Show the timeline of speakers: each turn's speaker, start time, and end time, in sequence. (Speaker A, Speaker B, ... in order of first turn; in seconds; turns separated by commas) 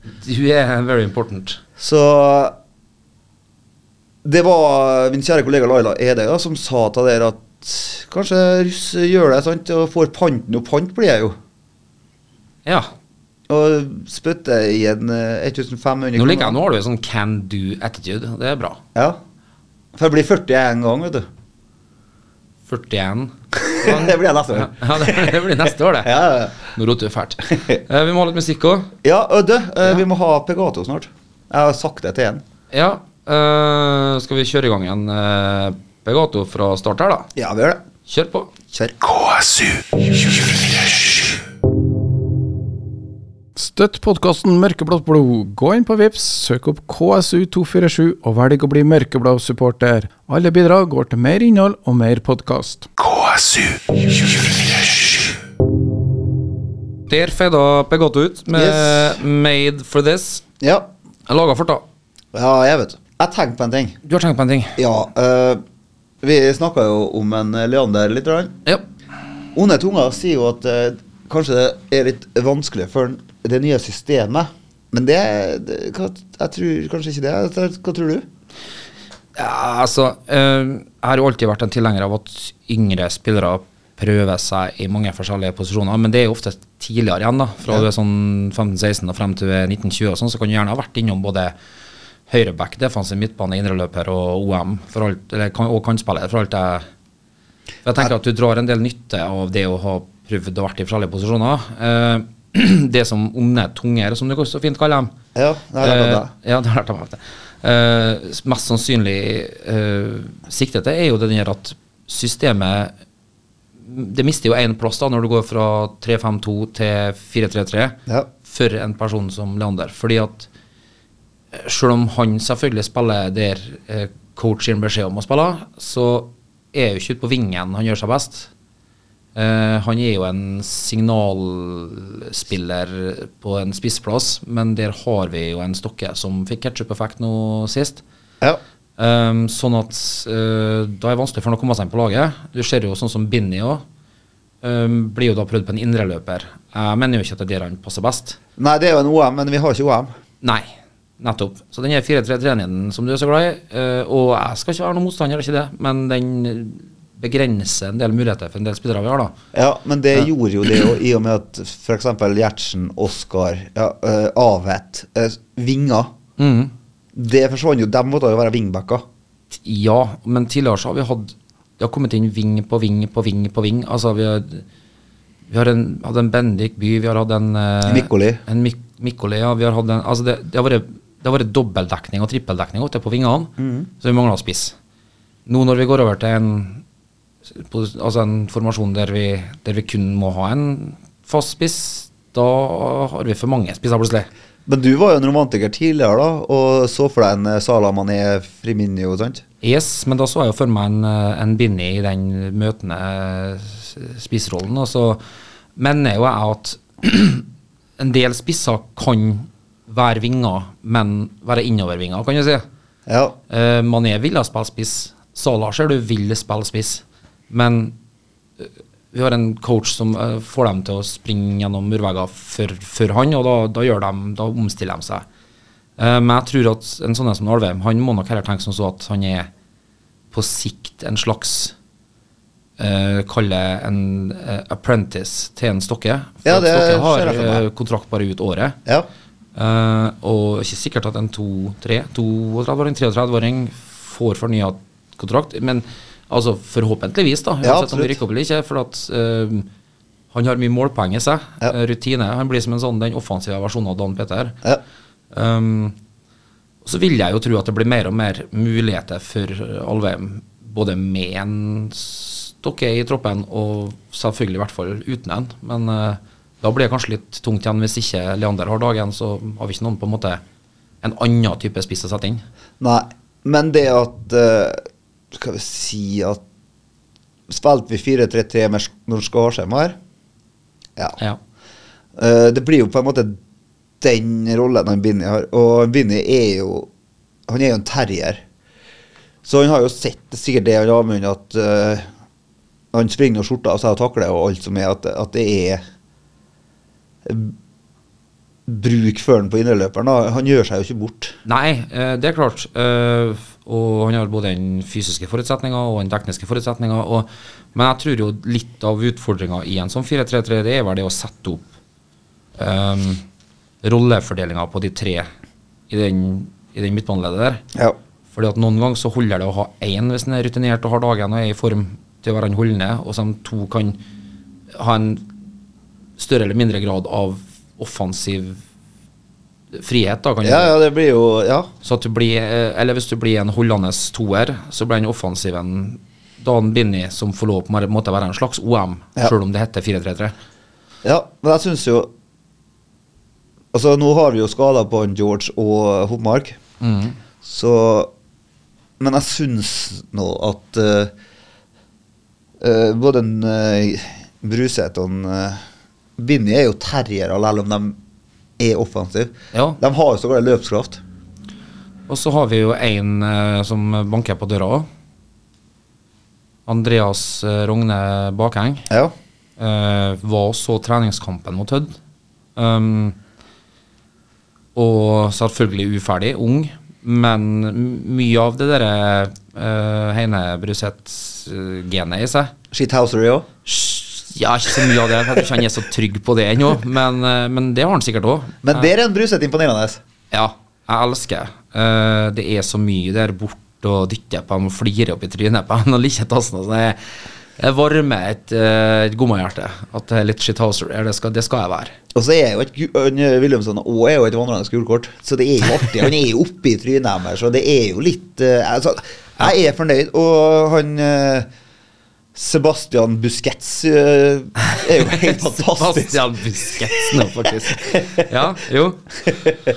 Speaker A: 0.2-1.6, Speaker B: 1.8-2.5, Speaker B: 4.2-11.3, Speaker B: 13.5-16.6, Speaker A: 16.1-18.8, Speaker B: 19.9-21.3, Speaker A: 22.7-26.1, Speaker B: 23.6-26.6, Speaker A: 26.7-28.9, Speaker B: 29.0-32.4, Speaker A: 32.7-37.3, Speaker B: 37.4-37.8, Speaker A: 38.1-38.5, Speaker B: 38.7-39.8, Speaker C: 43.5-52.9, Speaker A: 57.1-60.4, Speaker B: 58.5-59.2, Speaker B: 60.6-60.9, Speaker A: 61.3-61.8, Speaker B: 62.3-64.0, Speaker A: 64.0-64.8, Speaker B: 64.8-65.6, Speaker B: 66.2-68.6, Speaker B: 69.5-78.2, Speaker A: 79.3-91.5, Speaker A: 92.3-96.8, Speaker A: 97.8-105.1, Speaker B: 105.3-106.3, Speaker A: 105.8-112.9, Speaker A: 113.8-120.5, Speaker A: 121.5-128.5, Speaker A: 129.3-138.0, Speaker A: 139.0-143.8, Speaker A: 144.6-148.4, Speaker B: 148.6-150.1, Speaker A: 151.2-159.3, Speaker B: 159.5-166.1, Speaker A: 166.4-166.7, Speaker B: 167.1-169.0, Speaker A: 169.6-174.6, Speaker A: 175.5-184.7, Speaker B: 177.8-178.4, Speaker B: 183.6-183.9, Speaker A: 185.4-186.8, Speaker A: 187.5-194.3, Speaker B: 194.7-199.4, Speaker A: 199.6-205.2, Speaker A: 205.8-207.4, Speaker A: 208.0-212.6, Speaker B: 213.1-213.3, Speaker A: 213.5-217.9, Speaker A: 218.6-225.2, Speaker A: 226.0-229.5, Speaker A: 230.3-231.7, Speaker A: 232.8-238.8, Speaker B: 236.4-237.6, Speaker A: 239.6-249.7, Speaker B: 247.6-248.2, Speaker A: 250.3-254.6, Speaker A: 255.3-255.9, Speaker A: 256.8-270.4, Speaker A: 271.0-272.4, Speaker B: 272.8-276.4, Speaker B: 277.5-280.0, Speaker B: 282.2-283.4, Speaker B: 284.0-286.9, Speaker B: 287.5-288.4, Speaker B: 289.4-292.1, Speaker B: 292.9-295.8, Speaker B: 297.2-297.5, Speaker B: 298.7-301.3, Speaker A: 301.4-311.7, Speaker A: 312.6-313.2, Speaker A: 313.8-315.3, Speaker A: 315.9-317.6, Speaker A: 318.3-324.0, Speaker A: 324.7-325.3, Speaker A: 326.2-328.6, Speaker A: 329.7-330.7, Speaker B: 330.4-331.7, Speaker A: 331.8-340.3, Speaker B: 341.0-342.1, Speaker B: 343.7-346.6, Speaker A: 346.8-347.1, Speaker B: 347.4-348.1, Speaker B: 349.0-351.1, Speaker B: 352.6-355.6, Speaker B: 356.2-358.0, Speaker B: 358.6-361.0, Speaker A: 359.5-359.8, Speaker A: 362.1-364.9, Speaker A: 366.7-368.9, Speaker A: 369.6-371.9, Speaker A: 372.6-373.1, Speaker A: 374.7-382.5, Speaker B: 382.7-383.5, Speaker A: 383.6-388.9, Speaker B: 388.6-390.0, Speaker A: 390.3-397.0, Speaker A: 397.6-401.9, Speaker B: 402.1-411.5, Speaker B: 412.3-418.2, Speaker A: 414.7-419.1